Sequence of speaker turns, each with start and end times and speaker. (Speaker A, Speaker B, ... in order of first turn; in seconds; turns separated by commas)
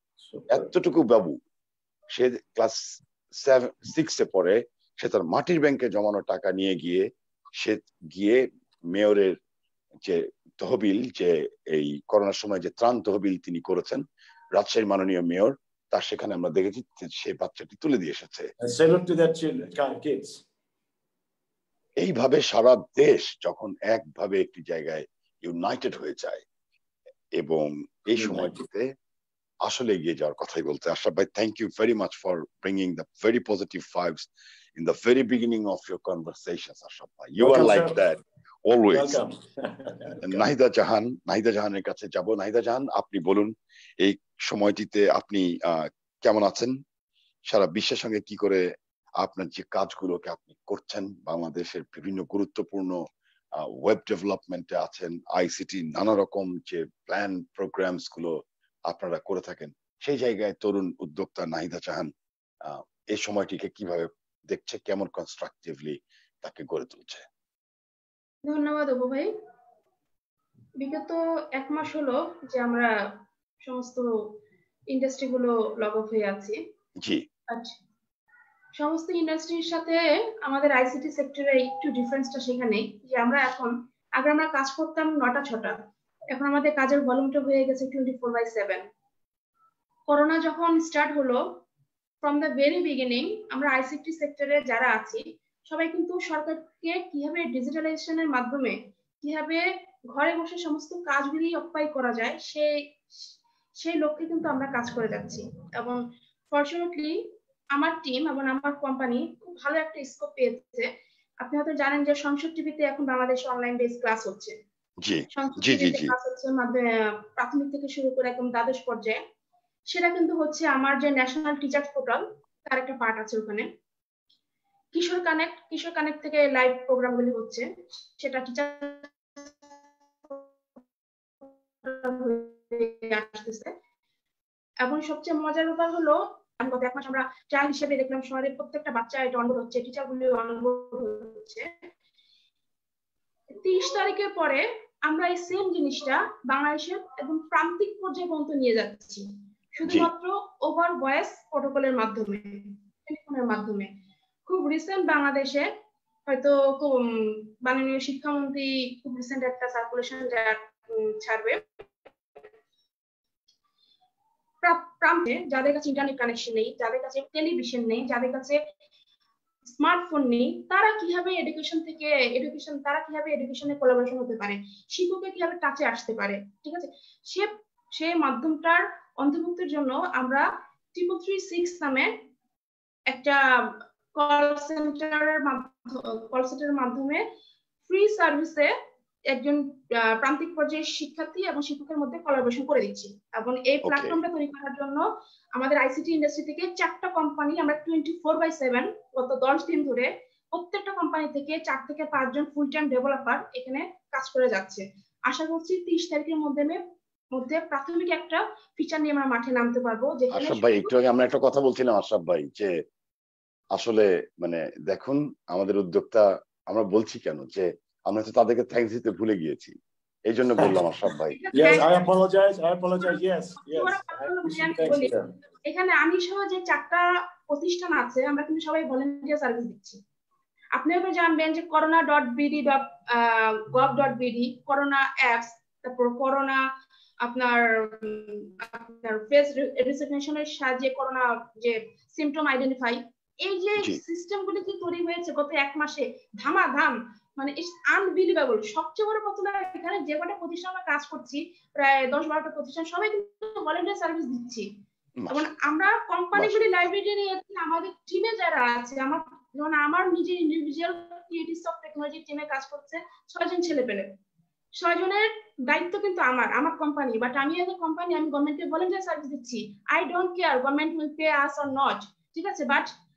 Speaker A: 0.3-0.7, Speaker B: 0.5-1.4, Speaker B: 2.1-2.8, Speaker B: 3.4-9.4, Speaker B: 10.0-14.0, Speaker B: 14.6-18.5, Speaker A: 18.6-20.4, Speaker B: 22.0-26.4, Speaker B: 27.4-28.9, Speaker A: 28.2-28.5, Speaker B: 29.6-39.2, Speaker A: 37.4-38.0, Speaker A: 38.9-40.4, Speaker B: 40.2-46.8, Speaker B: 47.5-48.6, Speaker B: 49.2-53.0, Speaker B: 53.6-62.1, Speaker B: 62.6-67.2, Speaker C: 68.4-69.3, Speaker C: 70.8-72.9, Speaker C: 73.6-74.4, Speaker C: 74.9-76.6, Speaker C: 77.5-77.8, Speaker C: 78.8-85.8, Speaker C: 86.3-88.8, Speaker C: 90.1-91.6, Speaker C: 92.2-102.7, Speaker C: 103.8-110.9, Speaker C: 111.4-114.5, Speaker B: 115.0-116.1, Speaker C: 115.3-119.2, Speaker C: 119.9-123.7, Speaker C: 124.9-129.5, Speaker C: 131.8-133.7, Speaker C: 134.8-141.7, Speaker C: 143.5-153.9, Speaker C: 154.5-155.7, Speaker C: 156.3-161.8, Speaker C: 164.6-168.6, Speaker C: 169.8-182.1, Speaker C: 183.1-187.2, Speaker C: 187.9-188.7, Speaker C: 189.3-206.8, Speaker B: 193.8-194.2, Speaker C: 207.3-210.9, Speaker B: 210.3-212.7, Speaker B: 213.7-219.7, Speaker B: 220.3-221.4, Speaker C: 221.3-222.1, Speaker A: 221.5-225.3, Speaker C: 223.0-225.1, Speaker C: 225.6-230.0, Speaker C: 230.7-236.7, Speaker C: 237.2-254.7, Speaker B: 255.2-255.5, Speaker C: 255.3-264.1, Speaker B: 256.3-256.7, Speaker C: 264.8-272.9